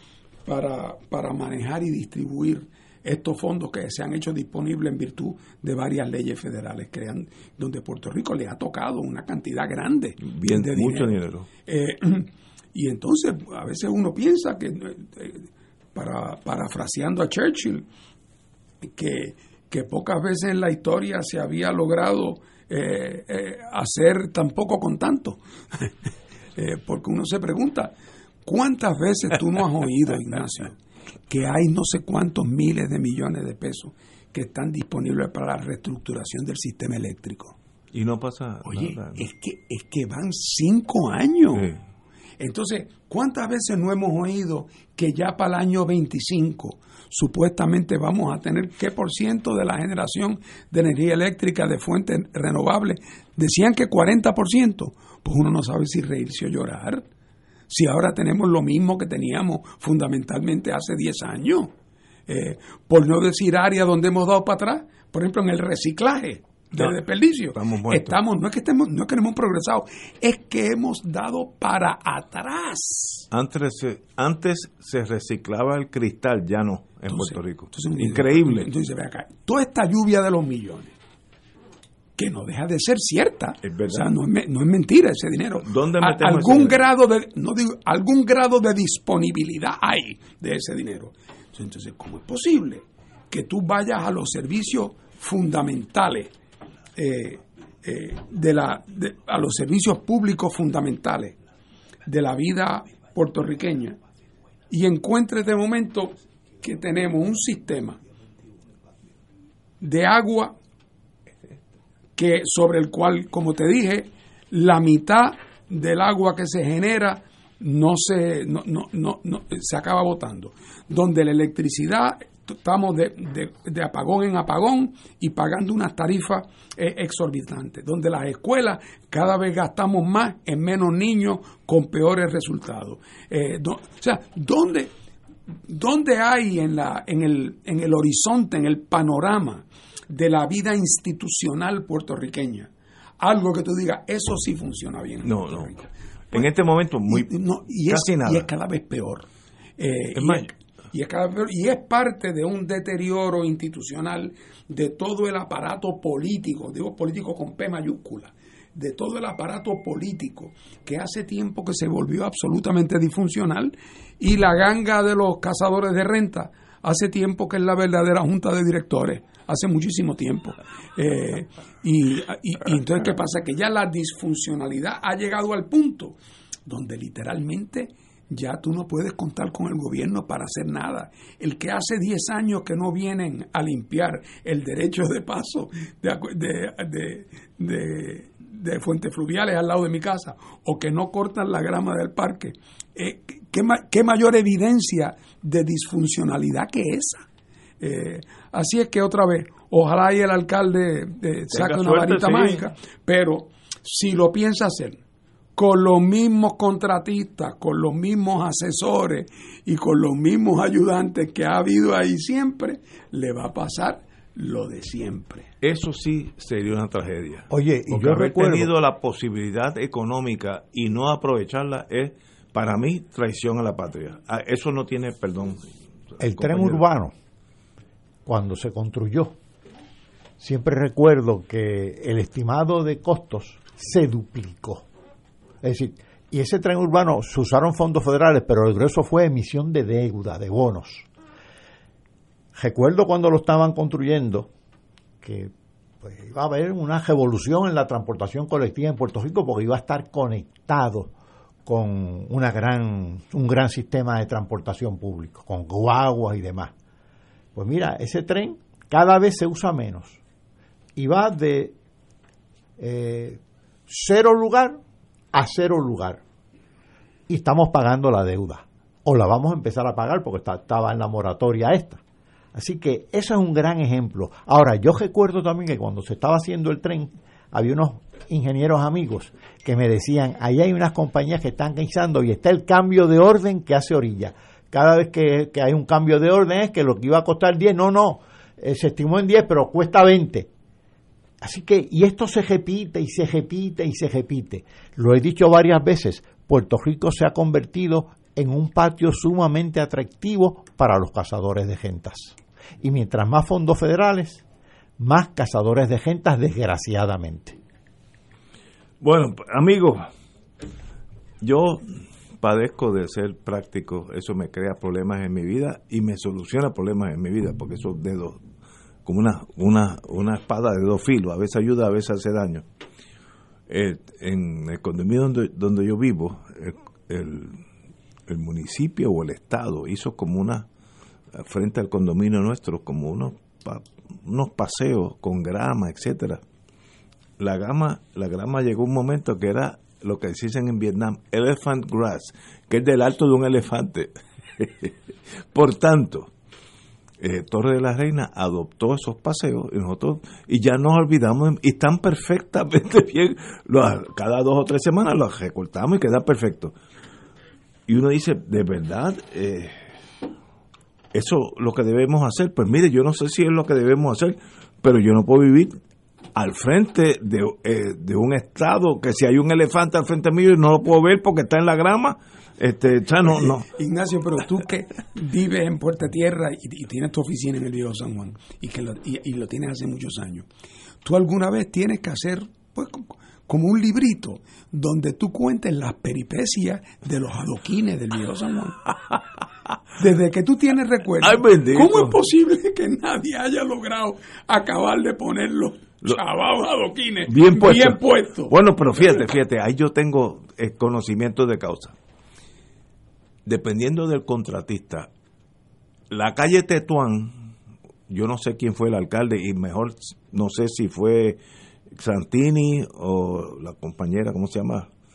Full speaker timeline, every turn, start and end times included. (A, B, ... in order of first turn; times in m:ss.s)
0:00.5-0:11.1 A
0:10.2-0:11.5 B
0:11.7-0:17.9 A
0:19.0-0:25.9 A
0:26.6-0:27.9 A
0:28.5-0:30.8 A
0:31.3-0:37.6 A
0:37.9-0:39.2 B
0:38.6-0:41.7 A
0:42.4-0:57.0 A
0:57.7-1:01.7 A
1:02.3-1:13.3 A
1:07.5-1:08.2 B
1:13.3-1:18.7 B
1:17.1-1:20.9 A
1:22.2-1:36.3 A
1:23.6-1:24.1 B
1:25.6-1:26.8 B
1:37.0-1:41.4 A
1:42.1-1:44.0 A
1:44.7-1:48.0 A
1:49.8-1:50.6 A
1:52.2-2:14.9 A
2:15.7-2:26.5 A
2:25.2-2:25.7 B
2:26.3-2:28.5 B
2:27.1-2:29.3 A
2:29.8-3:17.2 A
2:30.2-2:30.5 B
3:17.8-3:25.0 A
3:21.5-3:22.6 B
3:25.6-3:35.5 A
3:35.6-3:46.8 B
3:37.5-3:38.7 C
3:46.2-3:47.1 C
3:48.3-3:49.4 C
3:50.4-3:54.9 C
3:55.6-4:01.1 C
4:02.6-4:04.5 C
4:05.2-4:05.5 C
4:06.0-4:11.1 C
4:11.7-4:16.7 C
4:17.6-4:20.2 C
4:21.0-4:21.7 C
4:22.8-4:24.8 C
4:25.3-4:26.2 C
4:27.3-4:32.0 C
4:32.5-4:50.5 C
4:51.4-5:04.4 C
5:05.0-5:07.6 C
5:09.0-5:10.1 B
5:11.4-5:11.8 B
5:12.4-5:18.4 B
5:19.0-5:22.6 B
5:23.7-5:27.6 B
5:28.3-5:30.7 B
5:31.4-5:36.4 B
5:37.4-5:44.9 B
5:45.5-5:46.3 B
5:47.2-5:56.7 B
5:57.9-5:59.8 B
6:01.1-6:05.7 B
6:06.4-6:13.7 B
6:13.2-6:20.4 A
6:21.0-6:28.8 A
6:30.0-6:39.2 A
6:31.2-6:32.2 B
6:37.3-6:42.0 B
6:43.5-6:45.1 B
6:46.1-6:47.5 B
6:48.1-6:51.4 B
6:52.0-6:54.9 B